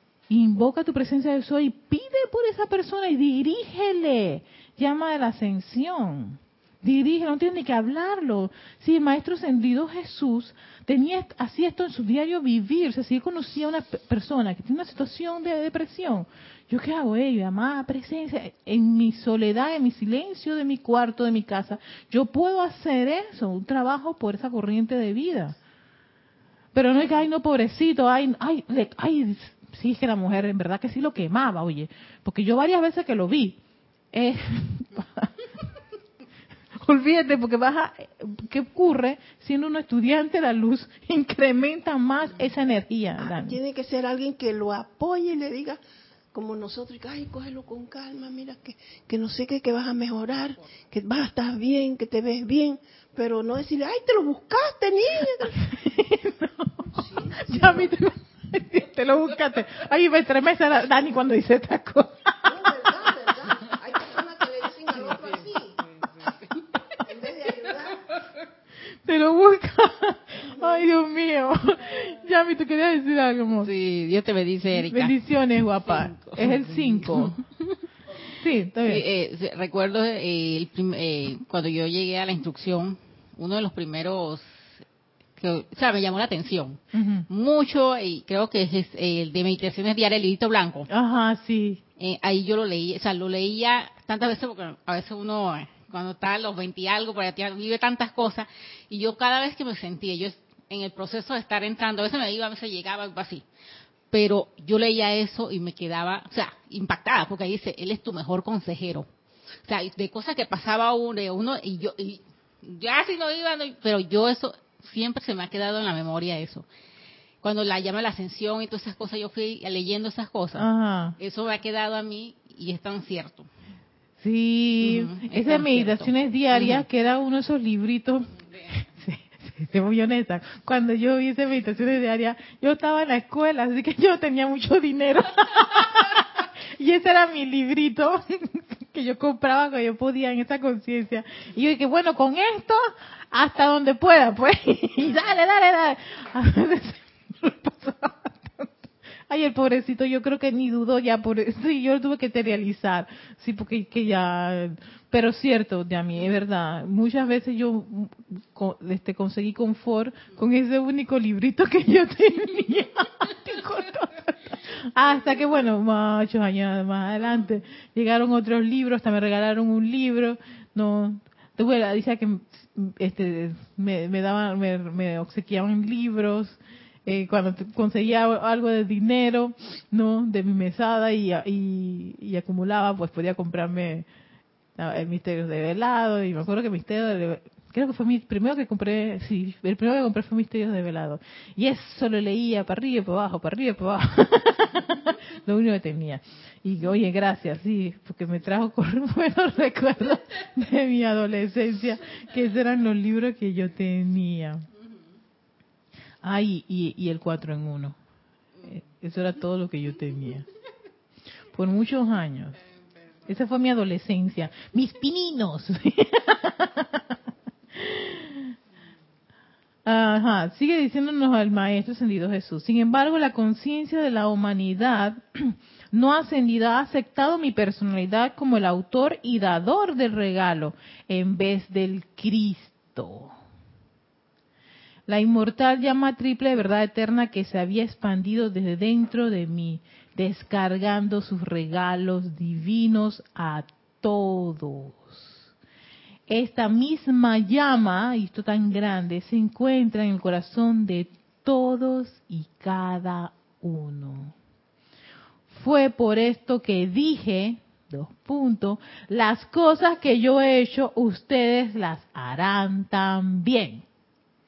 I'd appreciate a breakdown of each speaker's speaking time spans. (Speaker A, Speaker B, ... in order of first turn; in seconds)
Speaker A: 0.3-25.6, 26.7-33.6, 34.1-35.4, 36.8-43.6, 55.6-62.8, 69.0-73.7, 74.7-77.4, 78.4-79.0, 86.9-87.3, 90.9-91.8, 120.6-121.2, 124.2-128.3, 129.0-184.1, 184.8-204.7, 206.2-208.0, 208.7-210.5, 211.5-212.6, 213.3-217.1, 217.8-218.5, 219.9-233.3, 235.1-245.4, 246.3-254.3, 255.5-263.9
Speaker B: 43.2-45.8, 46.3-55.6, 56.9-58.0, 62.4-65.8, 67.0-68.1, 70.4-70.9
Speaker C: 73.6-75.2, 75.8-77.5, 78.8-84.6, 85.4-90.9, 92.0-103.4, 104.1-109.1, 109.7-116.7, 117.4-123.5, 124.8-126.8